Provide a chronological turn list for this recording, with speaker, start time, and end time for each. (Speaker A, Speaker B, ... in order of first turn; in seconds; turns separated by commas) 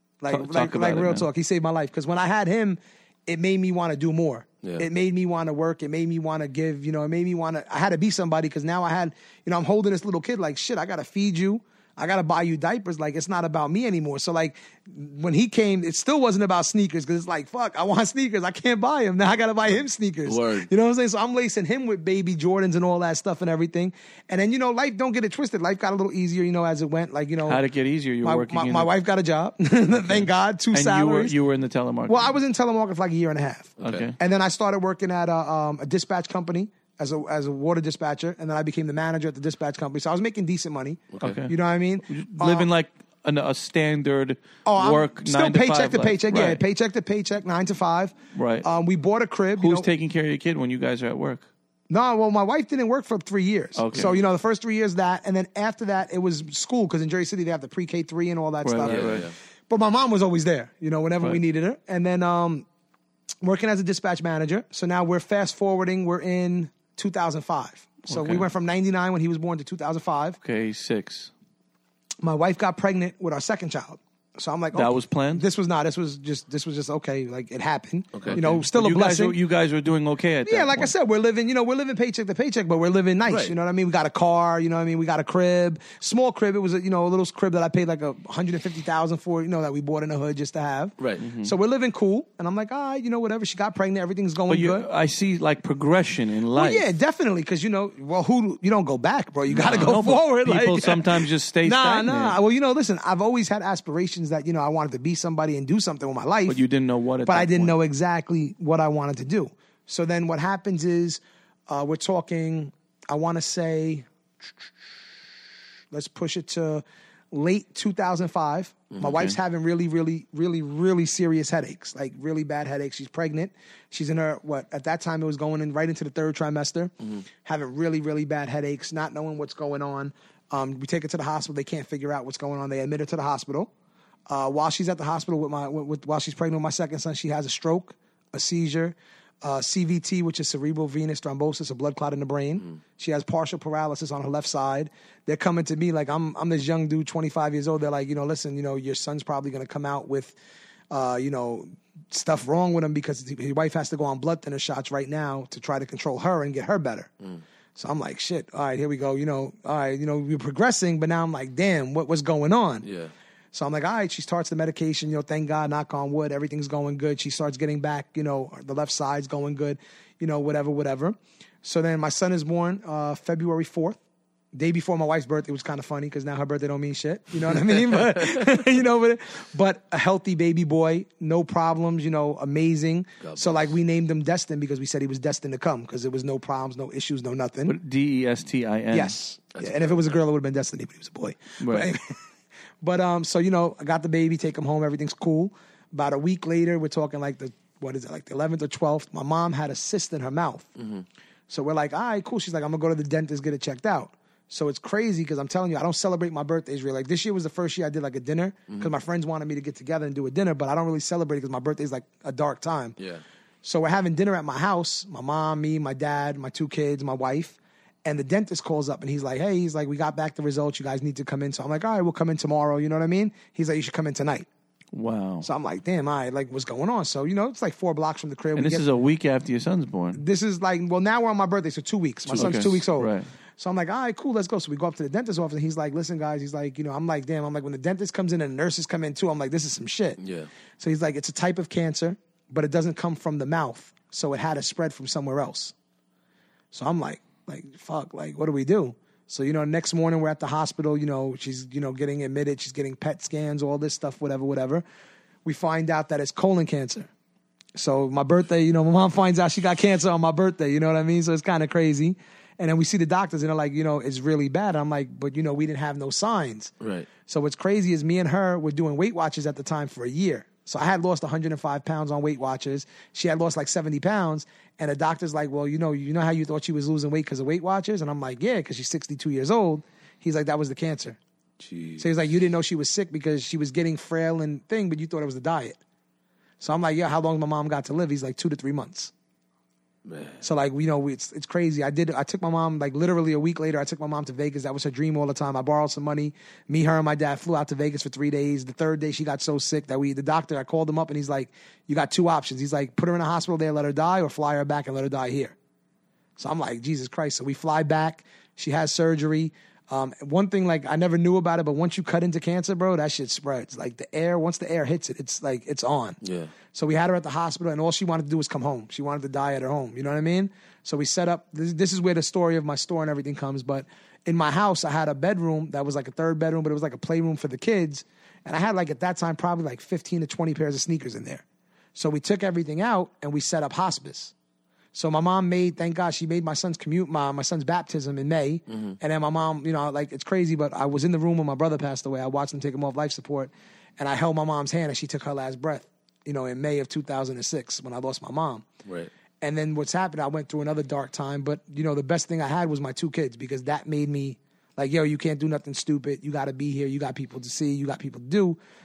Speaker A: 0.2-27.6, Speaker B: 0.3-1.3, Speaker C: 20.2-20.7, Speaker B: 27.4-28.9, Speaker A: 28.2-31.4, Speaker B: 30.0-32.3, Speaker A: 32.1-42.7, Speaker C: 33.8-34.0, Speaker B: 33.8-34.2, Speaker C: 41.1-41.4, Speaker B: 41.2-41.5, Speaker B: 42.1-46.6, Speaker A: 44.6-49.9, Speaker B: 48.3-48.6, Speaker B: 49.6-51.5, Speaker A: 51.9-62.6, Speaker B: 53.8-54.2, Speaker B: 58.6-59.3, Speaker C: 58.8-59.3, Speaker A: 63.4-70.4, Speaker B: 68.1-68.5, Speaker B: 70.4-71.3, Speaker A: 72.2-79.4, Speaker B: 74.7-75.4, Speaker B: 78.3-80.9, Speaker A: 80.4-94.9, Speaker C: 83.3-83.5, Speaker B: 91.2-91.5, Speaker B: 94.5-96.9, Speaker A: 96.5-106.6, Speaker B: 99.5-102.4, Speaker B: 106.5-107.8, Speaker A: 107.2-114.1, Speaker A: 115.9-133.7, Speaker B: 119.0-119.3, Speaker A: 134.3-150.3, Speaker A: 150.9-157.1, Speaker A: 157.8-162.9, Speaker C: 162.8-163.1, Speaker A: 163.5-174.0, Speaker A: 174.5-187.8, Speaker C: 183.2-183.7, Speaker B: 187.7-189.1, Speaker A: 188.9-192.2, Speaker C: 189.5-190.1, Speaker B: 191.6-191.9, Speaker A: 192.8-200.7, Speaker C: 200.8-201.0, Speaker A: 201.5-212.9, Speaker A: 213.6-224.5, Speaker B: 224.9-225.5, Speaker A: 225.4-228.8, Speaker B: 228.5-230.2, Speaker A: 230.1-240.2, Speaker C: 232.3-232.6, Speaker B: 232.3-233.3, Speaker C: 240.2-240.5, Speaker A: 240.8-245.7, Speaker A: 246.7-254.8, Speaker A: 255.4-257.1, Speaker A: 257.7-266.7, Speaker C: 266.8-267.1, Speaker A: 267.2-281.2, Speaker C: 281.6-282.1, Speaker A: 282.0-285.8, Speaker A: 286.6-289.1, Speaker C: 290.0-290.4, Speaker A: 290.4-305.6, Speaker A: 306.4-316.2, Speaker C: 316.2-316.5, Speaker A: 316.7-331.4, Speaker A: 331.9-334.3, Speaker A: 334.9-348.6, Speaker C: 338.7-338.9, Speaker C: 348.9-349.1, Speaker A: 349.4-358.6